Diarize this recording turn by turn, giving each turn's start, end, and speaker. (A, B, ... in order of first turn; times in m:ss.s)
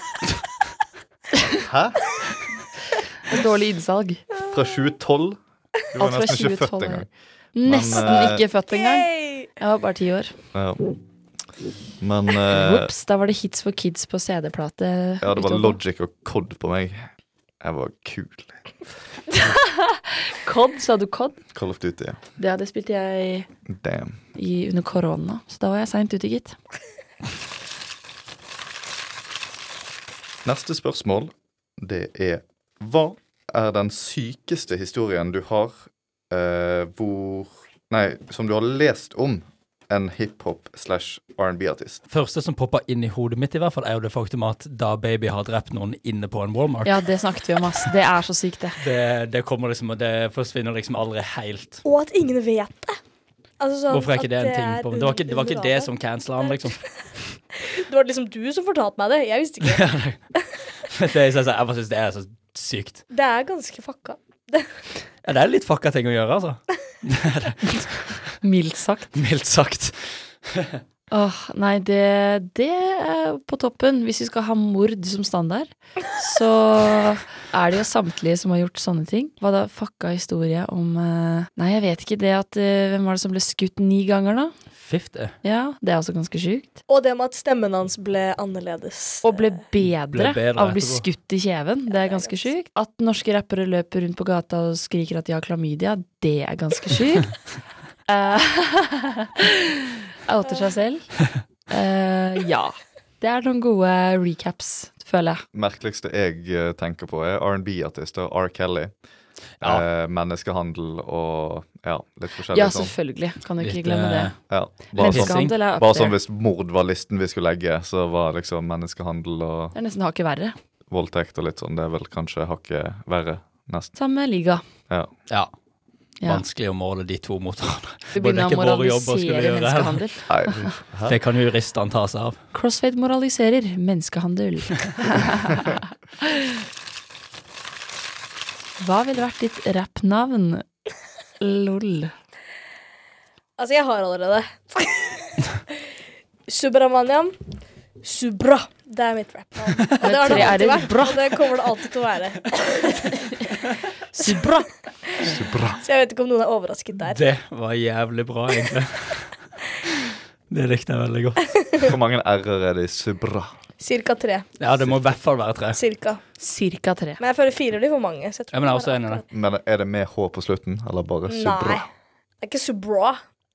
0:01.6-0:02.1 A
0:03.3-0:04.2 B
0:04.4-0:05.4 A
0:05.9-0:07.1 A
0:06.0-0:10.4 B
0:07.6-0:08.4 A
0:08.7-0:09.5 C
0:10.5-0:10.8 A
0:12.0-0:12.9 A
0:12.5-0:15.8 B
0:15.2-0:17.1 A
0:17.6-0:18.6 A
0:19.3-0:21.4 B
0:21.5-0:22.2 A
0:22.4-0:23.5 B
0:23.7-0:24.2 A
0:24.3-0:26.6 B
0:30.4-0:42.0 A
0:42.1-0:47.1 D
0:46.8-0:48.8 B
0:48.8-0:51.8 D
0:51.8-0:53.0 C
0:53.6-0:55.9 C
0:53.9-0:56.8 D
0:56.4-0:56.8 C
0:57.6-0:59.9 C
0:59.6-1:00.2 D
1:00.9-1:03.0 D
1:03.1-1:04.7 C
1:05.2-1:08.3 D
1:08.4-1:09.1 B
1:09.1-1:10.8 D
1:11.1-1:24.5 B
1:24.7-1:25.3 D
1:25.4-1:26.8 B
1:26.9-1:29.6 C
1:29.2-1:37.5 B
1:30.1-1:31.0 D
1:31.9-1:32.5 C
1:38.1-1:39.7 B
1:40.2-1:45.4 B
1:40.4-1:40.7 C
1:45.5-1:48.9 A
1:49.6-1:49.8 D
1:49.6-1:53.0 A
1:52.5-1:54.4 B
1:53.6-1:54.4 D
1:54.5-1:59.7 A
1:54.9-1:55.5 D
1:54.9-1:56.2 B
1:59.7-2:00.6 B
2:00.9-2:03.9 A
2:04.0-2:04.6 B
2:06.2-2:10.1 D
2:08.1-2:10.7 B
2:10.3-2:11.2 A
2:11.0-2:12.4 D
2:12.5-2:16.6 B
2:18.8-2:20.6 B
2:21.4-2:22.1 B
2:23.6-2:25.6 C
2:26.5-2:27.4 C
2:28.0-2:33.2 C
2:30.0-2:31.3 B
2:30.3-2:30.5 D
2:34.1-2:34.7 B
2:34.2-2:34.4 C
2:35.2-2:37.2 C
2:35.2-2:35.8 A
2:37.0-2:39.4 D
2:40.5-2:41.5 D
2:41.5-2:41.9 C
2:41.8-2:43.5 A
2:43.8-2:44.5 C
2:44.6-2:45.8 D
2:45.7-2:46.2 C
2:46.4-2:47.2 B
2:47.2-2:49.2 C
2:48.5-2:49.2 D
2:49.3-2:51.8 A
2:51.2-2:51.9 C
2:52.4-2:53.2 C